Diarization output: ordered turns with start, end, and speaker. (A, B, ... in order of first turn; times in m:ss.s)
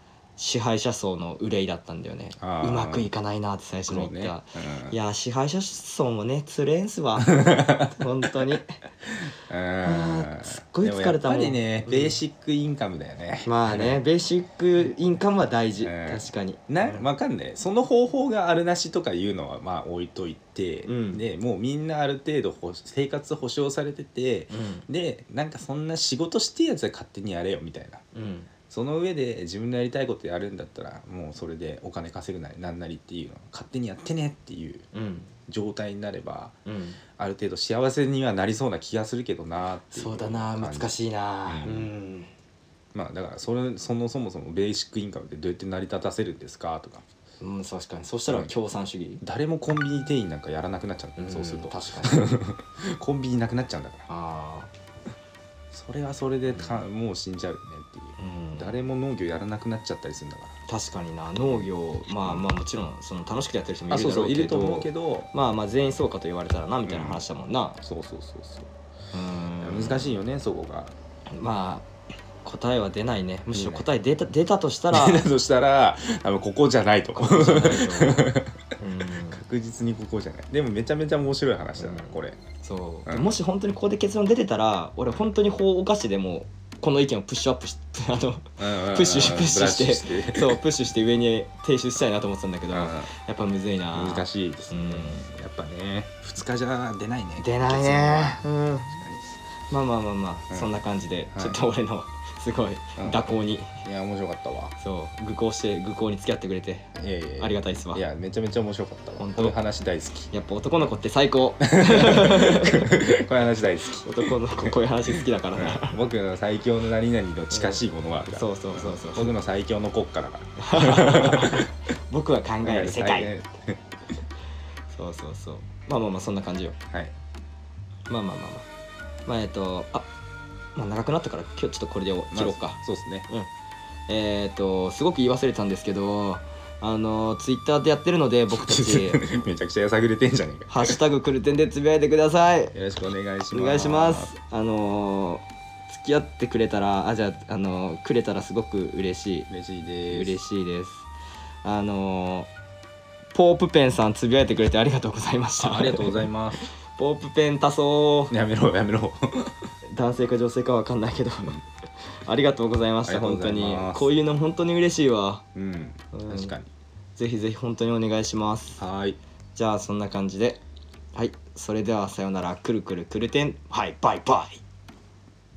0:00.4-0:08.8 A
0:02.4-0:03.1 B
0:03.9-0:04.9 B
0:07.3-0:08.3 B
0:09.2-0:14.0 B
0:09.8-0:12.2 A
0:13.4-0:17.0 A
0:15.8-0:28.0 B
0:20.9-0:21.2 A
0:24.5-0:24.8 A
0:28.1-0:28.5 A
0:28.7-0:34.9 B
0:34.9-0:35.3 A
0:35.5-0:36.6 B
0:36.6-0:37.0 A
0:37.2-0:41.9 B
0:39.9-0:42.3 A
0:42.9-0:47.0 B
0:47.4-0:49.2 A
0:49.2-0:54.1 B
0:51.2-0:52.3 A
0:54.1-0:54.7 A
0:55.7-1:00.6 B
0:56.5-0:56.8 A
0:58.2-0:58.8 A
1:00.7-1:07.8 A
1:03.9-1:05.3 B
1:06.9-1:07.2 B
1:07.8-1:08.7 B
1:09.1-1:10.1 A
1:09.6-1:10.9 B
1:11.3-1:11.9 A
1:12.4-1:15.2 A
1:13.5-1:13.9 B
1:14.9-1:18.5 B
1:17.1-1:19.4 A
1:19.2-1:22.4 B
1:21.8-1:35.3 A
1:23.0-1:23.3 B
1:28.6-1:30.6 B
1:32.7-1:33.1 B
1:33.9-1:39.2 B
1:37.4-1:39.0 A
1:39.7-1:43.8 A
1:43.0-1:43.3 B
1:43.8-1:44.7 B
1:44.8-1:48.0 A
1:47.0-1:50.3 B
1:49.2-1:49.6 A
1:50.3-1:53.1 A
1:51.6-2:01.7 B
1:54.0-1:56.0 A
1:57.5-1:59.3 A
2:00.6-2:03.3 A
2:02.6-2:03.8 B
2:04.9-2:06.8 A
2:08.1-2:08.7 A
2:09.2-2:10.1 A
2:10.8-2:13.5 A
2:12.3-2:13.3 B
2:14.1-2:19.3 A
2:18.5-2:21.0 B
2:20.7-2:22.7 A
2:22.7-2:24.3 B
2:23.5-2:29.5 A
2:29.5-2:30.4 B
2:30.1-2:31.1 A
2:31.6-2:32.5 A
2:33.3-2:38.3 A
2:35.6-2:36.6 B
2:38.3-2:39.7 B
2:39.9-2:41.6 A
2:42.2-2:45.4 A
2:43.0-2:44.1 B
2:45.5-2:46.7 B
2:46.1-2:46.5 A
2:47.2-2:48.8 A
2:48.8-2:49.2 B
2:49.6-2:50.6 A
2:51.1-2:54.6 A